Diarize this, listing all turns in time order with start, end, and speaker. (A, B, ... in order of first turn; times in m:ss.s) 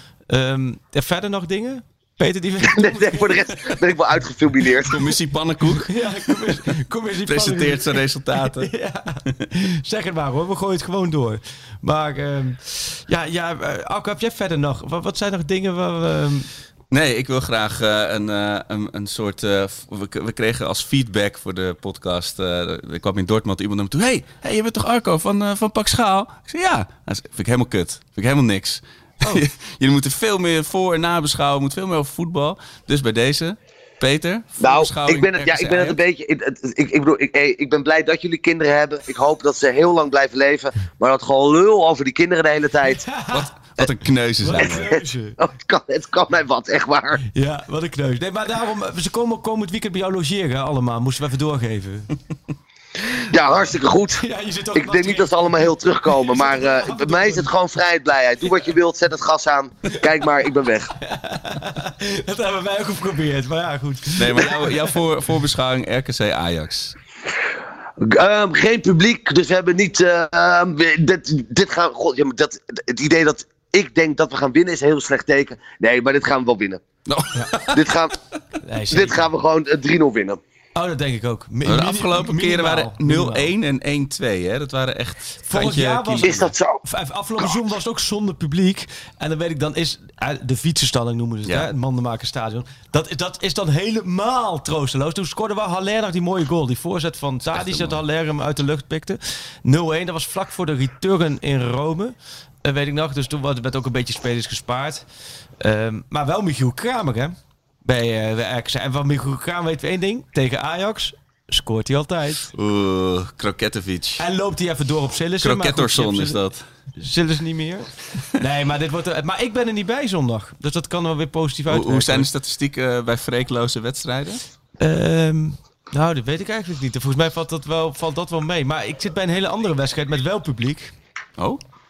0:00.3-0:03.8 A
0:02.6-0:05.0 B
0:04.8-0:06.6 C
0:05.8-0:16.5 A
0:07.2-0:08.7 C
0:16.9-0:36.0 C
0:34.6-0:43.0 B
0:42.8-0:43.5 A
0:43.3-0:44.9 C
0:44.4-0:45.4 A
0:44.6-0:47.2 B
0:47.3-0:52.1 A
0:53.3-0:54.2 B
0:54.2-0:55.4 A
0:54.7-1:00.9 B
0:56.0-0:57.5 A
1:01.0-1:04.9 A
1:04.1-1:07.0 C
1:08.0-1:16.8 B
1:17.1-1:17.9 C
1:17.7-1:18.2 B
1:18.6-1:19.3 A
1:18.9-1:20.4 B
1:20.8-1:23.5 A
1:21.6-1:26.5 C
1:25.5-1:45.0 A
1:26.2-1:26.8 B
1:37.5-1:38.0 C
1:45.6-1:52.5 A
1:52.5-1:54.2 C
1:54.2-1:56.4 A
1:55.4-1:56.7 C
1:57.0-2:02.3 A
2:01.7-2:04.4 C
2:04.8-2:10.9 A